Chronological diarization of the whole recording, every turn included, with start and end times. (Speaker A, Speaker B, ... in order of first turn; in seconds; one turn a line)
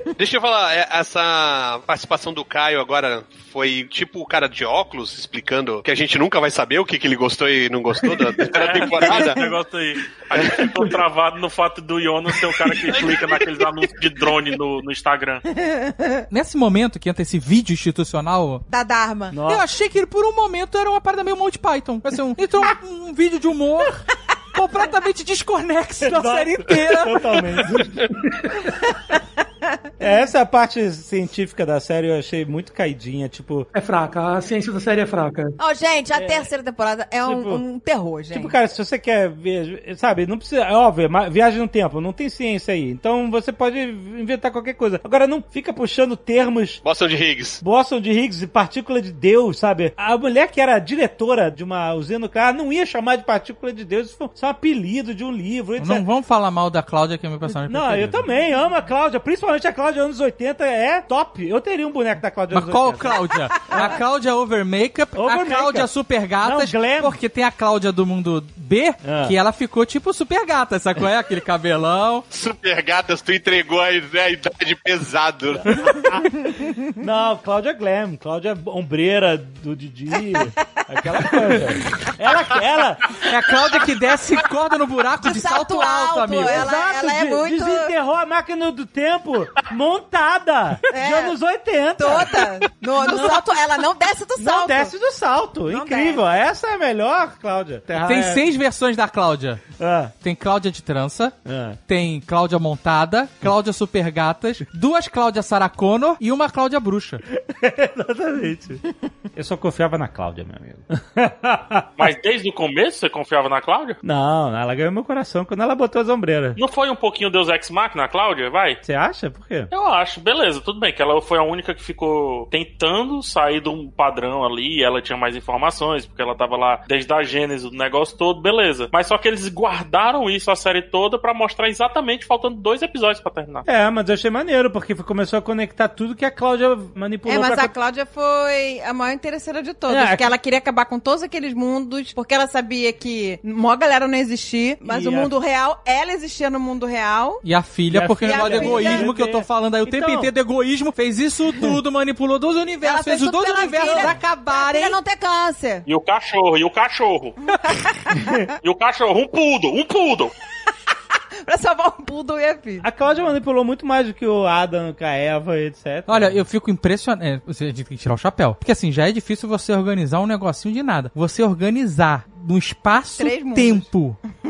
Speaker A: 0.2-9.5
Speaker B: 8.4-15.4
Speaker A: 10.3-10.7
Speaker A: 12.8-13.7
Speaker C: 15.5-16.2
Speaker D: 16.3-18.6
Speaker C: 18.7-19.4
Speaker E: 19.3-19.6
Speaker D: 19.5-27.4
Speaker E: 26.0-27.9
Speaker F: 28.0-28.6
Speaker E: 30.0-33.7
Speaker F: 33.7-35.6
Speaker C: 35.6-38.5
Speaker E: 36.1-36.5
Speaker E: 37.2-37.6
Speaker E: 38.3-46.8
Speaker A: 46.8-47.6
Speaker E: 47.6-56.0
Speaker D: 55.8-58.3
Speaker E: 57.5-64.0
Speaker D: 62.5-72.2
Speaker E: 65.1-67.2
Speaker E: 69.0-69.3
Speaker A: 72.3-76.0
Speaker E: 75.5-76.4
Speaker E: 77.0-83.1
Speaker D: 83.2-86.7
Speaker C: 85.2-87.9
Speaker E: 86.4-93.6
Speaker C: 90.9-91.3
Speaker C: 92.0-94.9
Speaker E: 94.3-98.4
Speaker C: 95.7-96.2
Speaker D: 98.0-99.6
Speaker E: 99.8-100.1
Speaker D: 100.2-107.2
Speaker E: 101.4-101.8
Speaker E: 107.3-108.8
Speaker E: 109.3-111.9
Speaker B: 112.0-114.0
Speaker E: 114.0-116.6
Speaker B: 116.5-118.8
Speaker E: 118.8-119.7
Speaker B: 119.7-133.7
Speaker E: 133.7-137.7
Speaker C: 137.2-147.4
Speaker E: 139.9-140.3
Speaker E: 144.8-145.3
Speaker D: 147.4-155.0
Speaker E: 147.9-150.3
Speaker C: 148.2-149.1
Speaker C: 152.8-155.8
Speaker E: 153.8-154.1
Speaker B: 155.9-157.4
Speaker E: 158.2-158.5
Speaker B: 158.6-160.3
Speaker C: 161.4-162.8
Speaker E: 162.8-166.4
Speaker D: 166.1-174.2
Speaker C: 173.1-173.9